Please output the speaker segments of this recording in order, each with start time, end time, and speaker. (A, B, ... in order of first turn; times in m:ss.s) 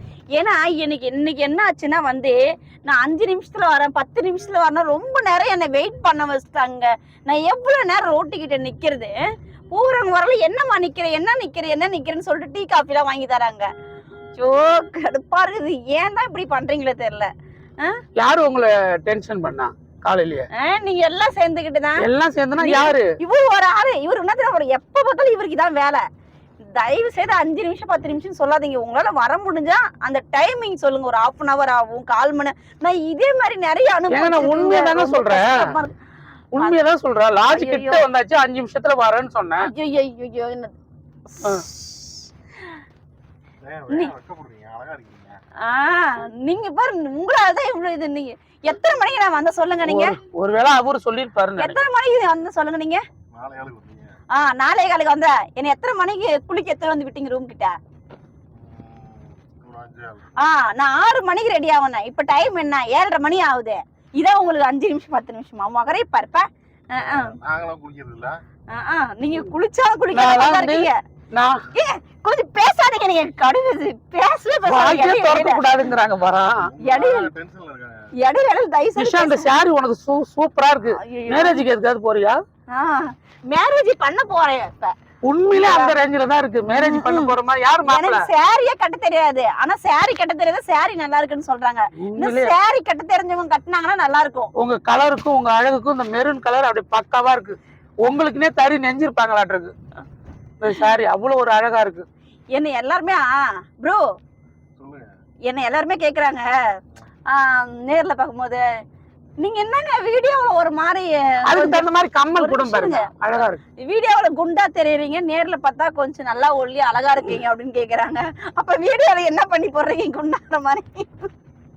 0:00.4-0:09.2 A
0:09.7-0:13.7 A
0:14.4-0:18.0 A
0:18.2-0:20.5 B
0:20.5-0:22.1 A
0:22.0-0:23.1 B
0:22.6-0:26.0 A
0:26.8-0:36.0 A
0:34.1-0:35.7 B
0:36.5-0:39.7 B
0:37.5-0:38.0 A
0:39.6-0:40.7 A
0:41.3-0:42.1 A
0:43.6-0:45.4 C
0:45.6-0:50.2 A
0:49.8-0:51.8 B
0:51.6-0:53.0 A
0:53.3-0:54.2 C
0:54.3-0:57.8 A
0:58.5-1:00.4 C
1:00.4-1:07.4 A
1:07.0-1:08.4 C
1:08.7-1:11.0 A
1:10.1-1:11.6 B
1:11.7-1:15.6 A
1:14.7-1:16.7 B
1:16.6-1:18.1 C
1:16.8-1:17.3 A
1:18.2-1:19.5 A
1:19.0-1:22.4 B
1:21.0-1:21.6 A
1:22.7-1:24.9 A
1:25.2-1:28.2 B
1:25.5-1:26.0 A
1:26.7-1:27.3 A
1:27.8-1:34.5 A
1:32.0-1:32.5 B
1:34.6-1:39.7 B
1:40.6-1:42.1 B
1:42.5-1:44.0 A
1:44.8-1:45.1 C
1:45.5-1:46.4 A
1:47.3-1:48.6 A
1:49.4-1:53.1 A
1:51.5-1:53.6 B
1:53.8-2:01.3 A